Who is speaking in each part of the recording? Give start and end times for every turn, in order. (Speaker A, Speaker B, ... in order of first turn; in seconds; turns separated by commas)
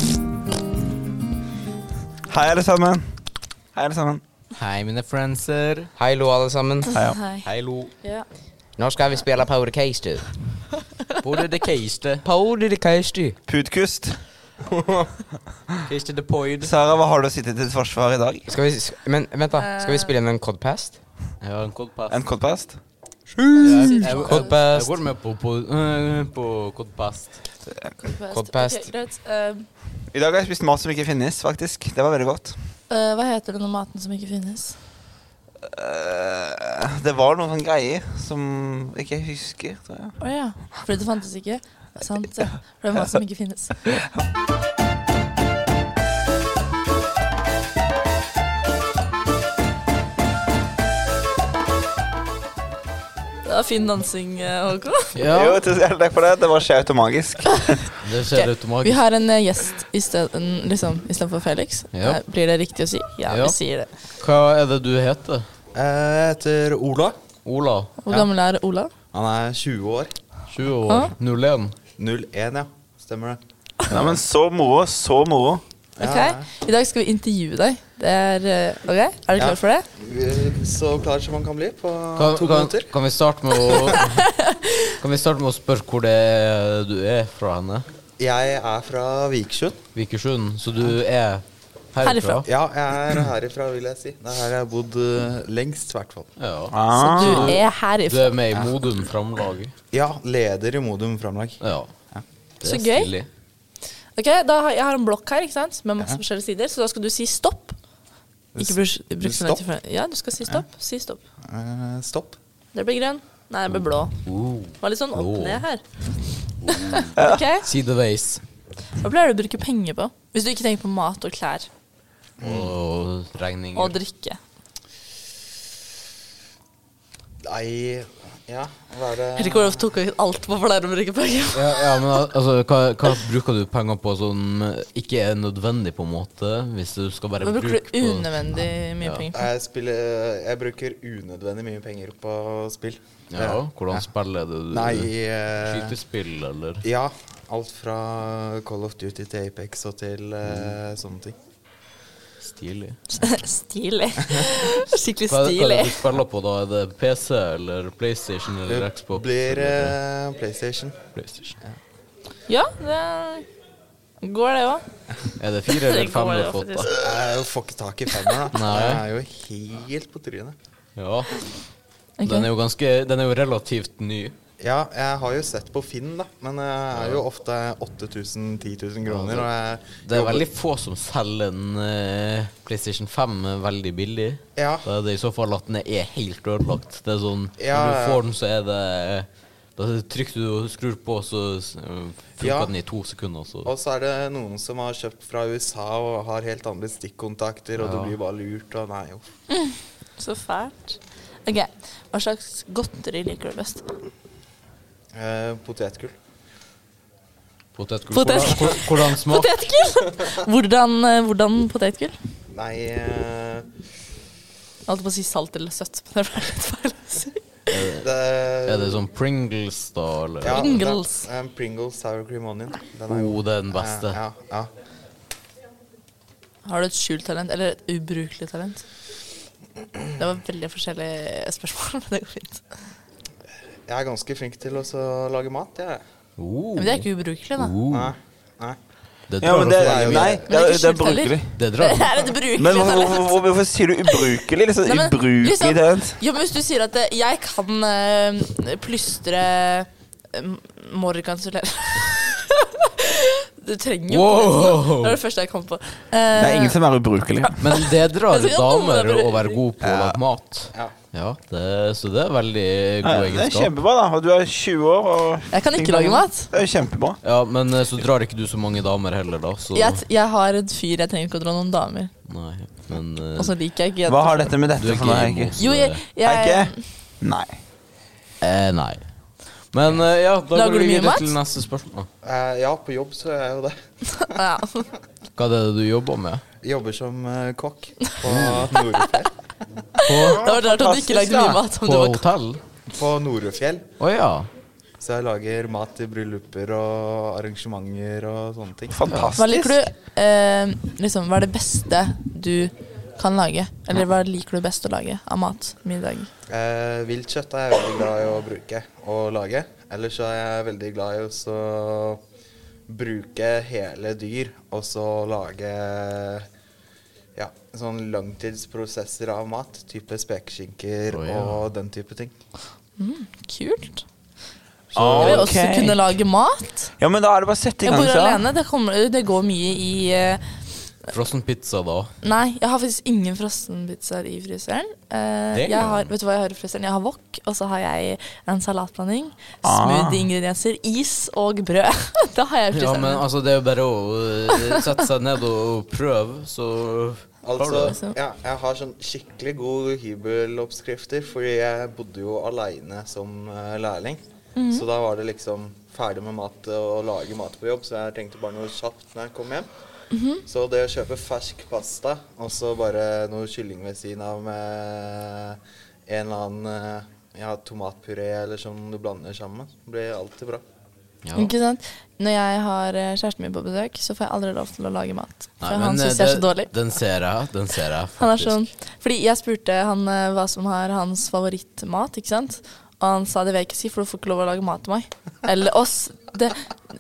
Speaker A: 2.3-4.2, Speaker B: 4.5-5.9, Speaker C: 6.0-6.9, Speaker A: 6.9-7.2, Speaker D: 7.0-7.5, Speaker B: 7.4-7.9, Speaker C: 8.8-10.3, Speaker B: 11.2-12.2, Speaker C: 12.2-13.4, Speaker A: 13.4-14.2, Speaker C: 14.7-15.2, Speaker B: 15.9-16.7, Speaker A: 16.6-18.5, Speaker C: 18.5-21.0, Speaker D: 19.6-20.1, Speaker B: 21.4-22.2, Speaker A: 22.1-22.8, Speaker C: 23.4-24.9, Speaker D: 23.6-24.5, Speaker B: 23.6-27.4, Speaker D: 28.0-29.7, Speaker C: 28.3-28.9, Speaker A: 30.1-32.6, Speaker D: 32.9-34.8, Speaker A: 35.6-40.2, Speaker D: 40.2-43.8, Speaker D: 53.5-55.1, Speaker B: 55.1-55.6, Speaker A: 55.2-57.9, Speaker B: 58.0-59.0, Speaker D: 58.3-63.9, Speaker B: 61.9-62.2, Speaker B: 63.3-63.6, Speaker B: 64.2-65.5, Speaker E: 65.7-67.2, Speaker B: 67.5-67.9, Speaker D: 68.0-68.9, Speaker E: 69.1-70.1, Speaker B: 70.5-71.8, Speaker E: 72.0-73.4, Speaker A: 73.9-75.6, Speaker E: 76.0-76.5, Speaker D: 76.0-79.9, Speaker E: 79.4-82.9, Speaker B: 82.2-84.3, Speaker E: 83.6-84.0, Speaker D: 84.0-84.7, Speaker B: 85.0-87.9, Speaker E: 88.2-89.8, Speaker B: 90.0-92.5, Speaker D: 92.0-92.4, Speaker E: 92.5-96.3, Speaker B: 96.4-99.7, Speaker A: 96.7-97.6, Speaker D: 97.0-98.4, Speaker E: 99.9-101.6, Speaker B: 101.6-101.9, Speaker B: 102.6-103.3, Speaker D: 102.6-103.1, Speaker D: 104.2-107.8, Speaker E: 108.5-109.7, Speaker D: 108.6-111.2, Speaker E: 111.5-112.4, Speaker D: 112.7-114.1, Speaker B: 114.2-115.6, Speaker D: 114.8-115.8, Speaker D: 116.7-117.7, Speaker B: 116.8-118.4, Speaker D: 119.0-121.7, Speaker E: 122.4-122.7, Speaker B: 122.4-124.0, Speaker D: 123.8-124.4, Speaker E: 127.5-129.9, Speaker D: 129.4-132.0, Speaker B: 131.5-139.3, Speaker D: 137.4-139.5, Speaker E: 139.3-144.1, Speaker B: 143.3-146.8, Speaker E: 144.7-146.0, Speaker E: 146.8-151.3, Speaker B: 152.4-153.0, Speaker D: 153.1-156.1, Speaker B: 155.3-160.0, Speaker E: 158.7-161.0, Speaker B: 161.2-161.6, Speaker D: 162.5-163.5, Speaker D: 164.2-164.8, Speaker B: 165.4-166.9, Speaker D: 165.7-167.0, Speaker E: 166.9-170.6, Speaker B: 168.5-169.0, Speaker B: 171.0-171.5, Speaker D: 172.2-172.5, Speaker B: 172.3-174.3, Speaker E: 174.6-180.5, Speaker B: 176.9-177.2, Speaker B: 179.1-179.5, Speaker B: 180.0-193.7, Speaker E: 184.6-184.9, Speaker E: 187.6-188.2, Speaker E: 192.4-192.7, Speaker E: 193.6-199.2, Speaker B: 197.8-198.2, Speaker D: 199.5-203.9, Speaker E: 205.1-206.1, Speaker B: 207.8-209.5, Speaker D: 208.1-212.2, Speaker E: 212.5-213.7, Speaker D: 214.9-217.4, Speaker B: 217.7-218.1, Speaker E: 218.0-219.0, Speaker B: 218.6-220.7, Speaker E: 220.4-224.7, Speaker D: 220.5-221.3, Speaker B: 223.1-224.2, Speaker D: 226.7-228.8, Speaker D: 230.2-232.7, Speaker E: 233.9-236.0, Speaker B: 236.4-238.1, Speaker D: 236.8-237.8, Speaker E: 237.9-238.8, Speaker B: 239.3-240.3, Speaker A: 239.4-241.6, Speaker E: 239.5-240.5, Speaker D: 240.5-243.4, Speaker B: 241.6-242.1, Speaker A: 242.5-246.2, Speaker D: 244.1-256.8, Speaker B: 254.1-255.2, Speaker A: 256.3-257.9, Speaker B: 257.6-263.7, Speaker D: 258.3-259.6, Speaker A: 259.8-260.2, Speaker A: 263.0-267.2, Speaker D: 265.5-266.5, Speaker B: 267.2-270.0, Speaker D: 269.7-272.1, Speaker B: 272.3-273.5, Speaker D: 273.4-274.5, Speaker A: 274.1-275.5, Speaker B: 274.8-276.0, Speaker D: 275.6-276.9, Speaker A: 276.2-277.6, Speaker B: 278.4-279.1, Speaker B: 279.7-282.1, Speaker D: 280.5-281.4, Speaker E: 282.2-284.4, Speaker D: 284.3-284.9, Speaker B: 285.4-286.4, Speaker E: 286.6-289.3, Speaker B: 288.3-288.7, Speaker D: 290.0-292.2, Speaker B: 290.1-290.4, Speaker A: 290.2-291.6, Speaker B: 291.8-292.6, Speaker E: 292.9-293.8, Speaker B: 294.0-294.5, Speaker E: 295.0-299.0, Speaker A: 298.9-299.9, Speaker B: 299.1-299.4, Speaker D: 299.4-306.3, Speaker E: 306.5-312.2, Speaker E: 312.9-316.5, Speaker E: 317.4-322.3, Speaker B: 321.1-321.6, Speaker D: 323.0-324.1, Speaker A: 325.0-326.1, Speaker B: 325.0-325.5, Speaker D: 325.1-326.9, Speaker A: 327.0-328.5, Speaker D: 327.8-330.4, Speaker B: 331.1-332.1, Speaker D: 332.2-343.3, Speaker B: 335.5-336.0, Speaker A: 339.6-340.3, Speaker B: 342.7-348.0, Speaker E: 347.4-359.7, Speaker D: 347.8-348.2, Speaker D: 354.6-354.8, Speaker D: 360.1-360.4, Speaker E: 360.5-370.6, Speaker B: 371.2-371.5, Speaker D: 371.4-376.7, Speaker B: 375.6-378.6, Speaker D: 378.2-386.7